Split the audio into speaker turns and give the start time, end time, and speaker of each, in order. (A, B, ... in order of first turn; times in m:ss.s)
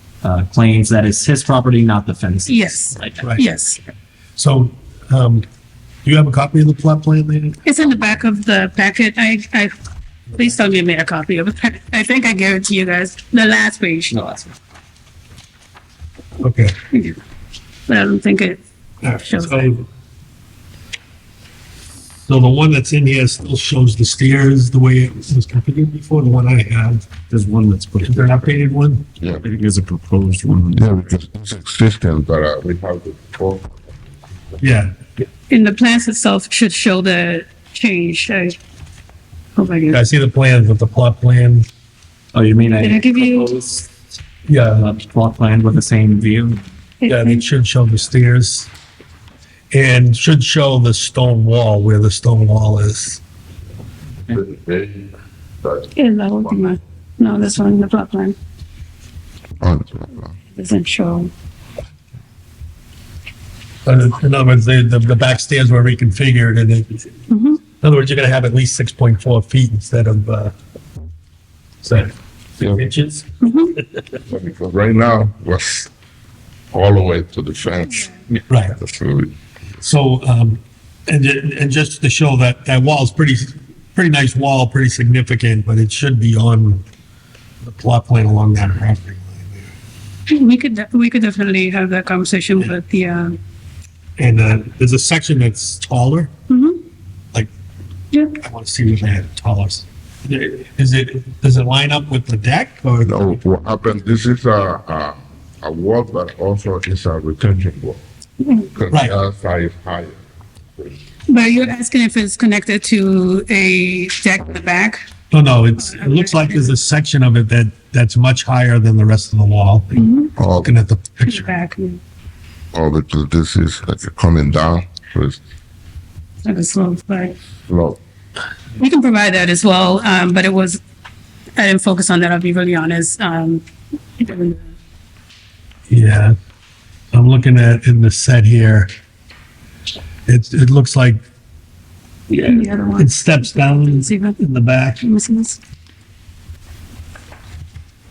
0:00.2-0:03.2 A
0:02.5-0:03.8 B
0:04.4-0:05.4 C
0:06.0-0:07.6 C
0:07.6-0:09.7 B
0:10.3-0:14.2 B
0:16.4-0:16.7 C
0:16.9-0:17.2 B
0:17.9-0:18.6 B
0:19.0-0:19.8 C
0:19.2-0:19.8 B
0:22.2-0:27.0 C
0:27.3-0:28.5 D
0:28.0-0:29.0 C
0:29.4-0:30.8 D
0:30.7-0:33.7 E
0:34.6-0:35.2 C
0:35.5-0:38.6 B
0:39.6-0:40.0 B
0:39.9-0:41.7 C
0:42.3-0:43.9 A
0:42.8-0:43.5 B
0:44.5-0:44.9 C
0:44.8-0:46.6 A
0:47.0-0:47.5 B
0:47.1-0:48.7 C
0:49.7-0:53.2 C
0:54.3-0:55.9 E
0:55.9-0:58.3 B
0:59.6-1:00.3 E
1:00.6-1:01.3 B
1:03.8-1:07.1 C
1:07.3-1:07.6 B
1:07.7-1:10.5 C
1:11.8-1:13.3 C
1:13.4-1:13.8 B
1:14.3-1:15.9 E
1:16.7-1:18.1 E
1:18.5-1:18.8 C
1:18.7-1:19.3 E
1:19.8-1:26.8 C
1:27.6-1:29.7 C
1:30.3-1:33.4 B
1:34.2-1:36.3 C
1:36.5-1:36.8 B
1:38.4-1:43.2 C
1:43.0-1:48.0 E
1:48.4-1:48.7 B
1:48.7-1:50.2 E
1:48.9-1:49.1 C
1:51.3-1:55.0 B
1:55.3-2:01.5 C
1:55.8-1:56.7 B
2:00.0-2:00.3 B
2:00.4-2:00.7 E
2:01.2-2:02.0 B
2:02.7-2:05.4 E
2:06.4-2:07.4 B
2:07.6-2:08.0 E
2:08.8-2:10.8 B
2:11.6-2:13.6 B
2:14.2-2:14.7 B
2:15.9-2:16.4 C
2:17.1-2:18.9 C
2:20.3-2:21.2 C
2:22.3-2:24.4 B
2:22.4-2:25.0 C
2:25.0-2:25.6 B